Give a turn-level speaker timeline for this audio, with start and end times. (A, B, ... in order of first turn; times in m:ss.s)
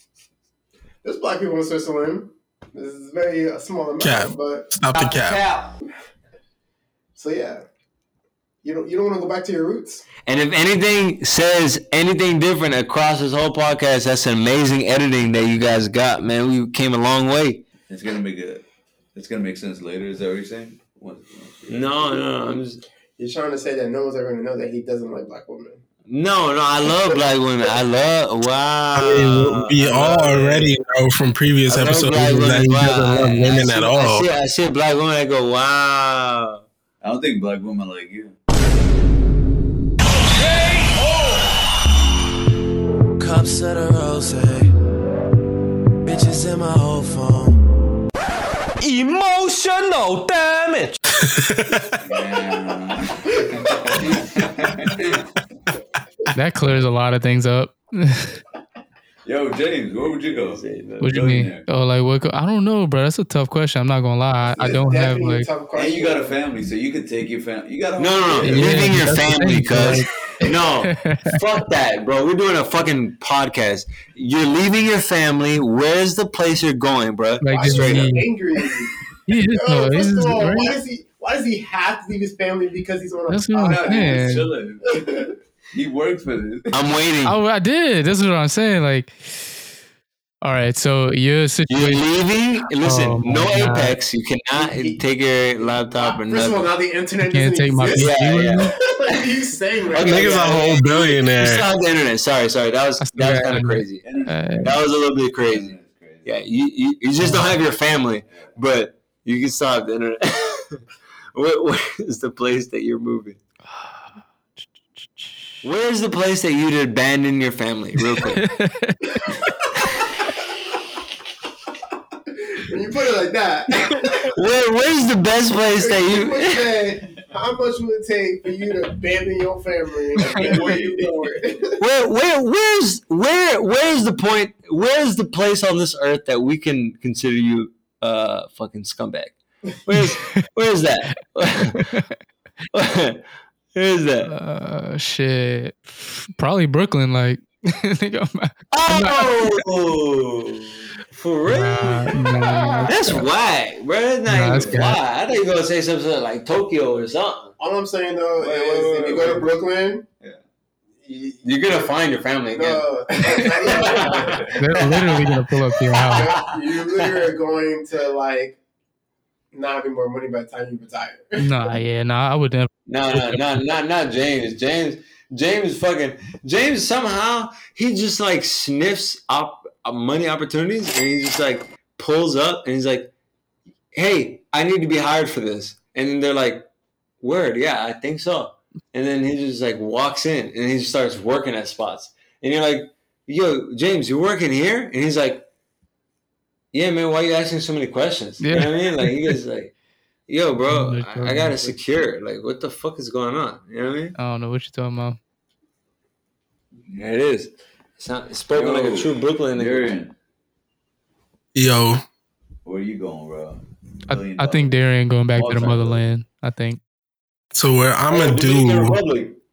0:01.0-0:04.7 A
0:04.0-0:05.4 B
0:04.9-0:05.8 C
0:07.1-0:07.6 A
0:08.6-0:10.1 A
0:10.2-0:17.6 C
0:17.9-0:18.6 D
0:19.1-0:22.2 D
0:21.7-0:22.8 C
0:23.2-0:25.8 A
0:26.1-0:30.8 C
0:28.9-0:34.3 B
0:31.7-0:36.6 C
0:37.0-0:38.4 D
0:40.3-0:41.5 E
0:43.2-0:44.7 E
0:46.1-0:47.6 E
0:48.8-0:51.0 E
0:51.2-0:51.9 B
0:52.0-0:55.2 D
0:56.3-0:58.4 F
0:59.2-1:01.7 D
1:00.2-1:01.1 C
1:01.0-1:05.5 F
1:04.6-1:06.4 A
1:05.7-1:09.0 D
1:08.0-1:18.1 C
1:08.4-1:10.1 F
1:10.8-1:11.3 F
1:17.4-1:18.2 F
1:17.5-1:25.2 A
1:19.3-1:20.8 F
1:23.3-1:24.5 F
1:23.6-1:26.8 D
1:26.7-1:27.4 C
1:27.2-1:29.6 F
1:30.4-1:32.0 F
1:31.7-1:36.7 C
1:32.8-1:34.0 F
1:34.6-1:35.0 A
1:35.6-1:38.1 A
1:37.3-1:38.7 F
1:37.9-1:39.2 C
1:38.9-1:40.8 A
1:39.9-1:44.0 C
1:39.9-1:41.7 B
1:43.0-1:44.7 F
1:44.0-1:46.3 D
1:44.6-1:45.7 C
1:46.2-1:50.8 C
1:51.3-1:53.4 C
1:55.6-1:58.4 C
1:58.2-1:59.3 F
2:02.3-2:04.3 A
2:04.3-2:06.7 C
2:05.8-2:11.8 A
2:10.2-2:11.2 D
2:11.8-2:21.9 C
2:19.9-2:20.4 F
2:21.7-2:22.1 F
2:22.7-2:23.2 C
2:23.7-2:24.3 C
2:24.2-2:29.5 F
2:28.7-2:32.1 C
2:31.5-2:33.2 F
2:32.9-2:37.5 C
2:34.3-2:35.0 F
2:37.6-2:40.0 A
2:38.4-2:39.5 D
2:41.0-2:41.8 A
2:41.4-2:45.2 C
2:42.5-2:45.2 A
2:44.2-2:44.6 D
2:44.5-2:46.3 F
2:45.9-2:47.2 C
2:46.1-2:48.6 A
2:49.5-2:51.5 A
2:51.4-2:53.4 F
2:52.9-3:03.1 C
3:03.9-3:06.7 C
3:07.2-3:15.4 C
3:16.7-3:19.7 C
3:18.4-3:19.4 F
3:20.3-3:24.1 C
3:20.6-3:21.7 F
3:24.2-3:25.2 F
3:26.9-3:29.9 C
3:28.5-3:30.1 D
3:31.5-3:32.0 B
3:32.6-3:34.7 D
3:34.1-3:36.8 F
3:35.3-3:36.1 D
3:37.5-3:39.0 B
3:38.1-3:39.4 C